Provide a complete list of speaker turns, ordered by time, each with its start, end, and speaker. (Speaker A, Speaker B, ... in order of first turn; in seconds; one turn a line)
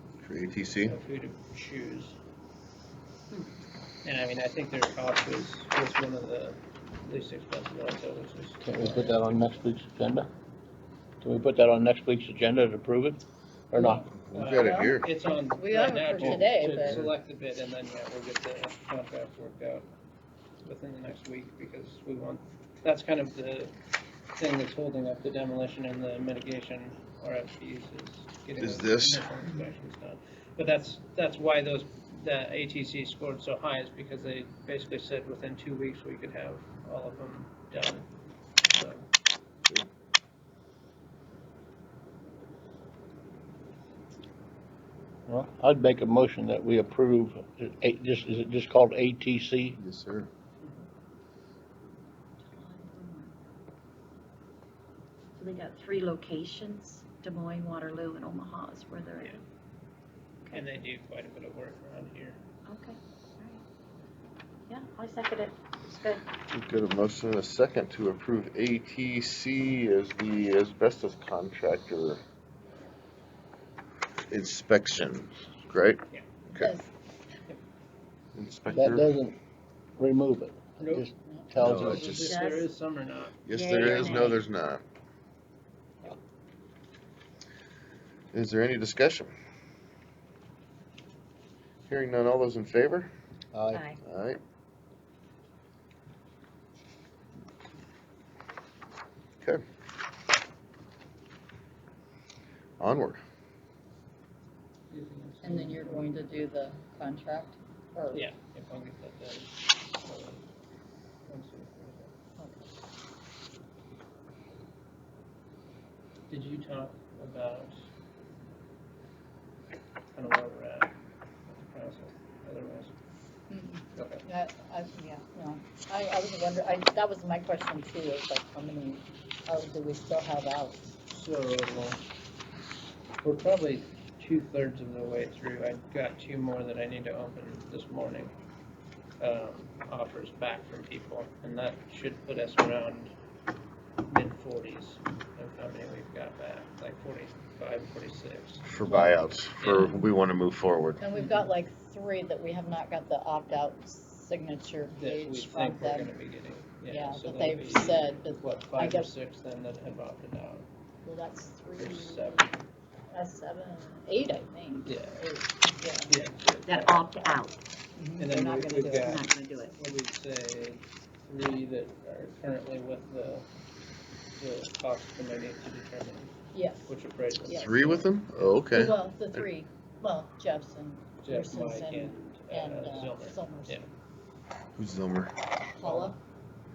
Speaker A: 0.2-1.0
Speaker B: 0.8-2.2
Speaker B: 4.0-9.5
Speaker C: 8.6-10.3
Speaker C: 11.2-14.1
Speaker D: 13.8-17.0
Speaker A: 14.3-15.1
Speaker B: 14.3-19.9
Speaker C: 16.2-17.0
Speaker B: 20.6-23.7
Speaker B: 24.4-38.1
Speaker A: 28.6-29.3
Speaker B: 38.6-39.0
Speaker C: 45.3-49.8
Speaker A: 49.8-50.3
Speaker E: 52.5-53.3
Speaker E: 55.4-59.4
Speaker E: 60.5-60.7
Speaker B: 60.5-62.4
Speaker E: 62.6-63.6
Speaker E: 64.7-66.2
Speaker A: 66.5-72.2
Speaker A: 74.3-76.7
Speaker D: 76.5-76.9
Speaker A: 78.3-79.0
Speaker C: 78.7-79.3
Speaker C: 80.0-82.1
Speaker B: 80.8-84.4
Speaker A: 81.5-82.4
Speaker E: 81.9-82.7
Speaker A: 83.5-84.8
Speaker E: 83.5-84.4
Speaker A: 88.3-89.3
Speaker A: 91.9-93.1
Speaker C: 93.5-93.8
Speaker E: 93.7-94.0
Speaker A: 94.0-94.4
Speaker A: 102.8-103.2
Speaker B: 104.9-106.2
Speaker D: 105.4-108.2
Speaker B: 108.1-110.5
Speaker B: 111.3-112.1
Speaker D: 112.4-112.7
Speaker B: 116.3-117.8
Speaker B: 120.1-120.9
Speaker B: 121.5-122.9
Speaker D: 123.5-130.9
Speaker B: 123.9-124.2
Speaker B: 131.1-132.0
Speaker B: 133.2-138.3
Speaker B: 139.2-143.1
Speaker B: 144.1-150.0
Speaker A: 148.6-151.0
Speaker D: 151.0-156.1
Speaker B: 155.0-160.7
Speaker D: 156.9-159.1
Speaker D: 161.0-162.5
Speaker B: 161.8-162.6
Speaker D: 163.1-166.2
Speaker B: 164.8-165.4
Speaker B: 166.1-166.9
Speaker E: 166.6-167.6
Speaker D: 167.9-169.2
Speaker B: 168.2-173.4
Speaker E: 168.9-169.7
Speaker B: 174.3-176.3
Speaker D: 176.5-176.9
Speaker B: 176.8-178.6
Speaker A: 177.5-179.4
Speaker D: 178.7-183.8
Speaker B: 181.2-183.9
Speaker A: 184.8-185.4
Speaker D: 185.7-186.2
Speaker B: 185.8-186.2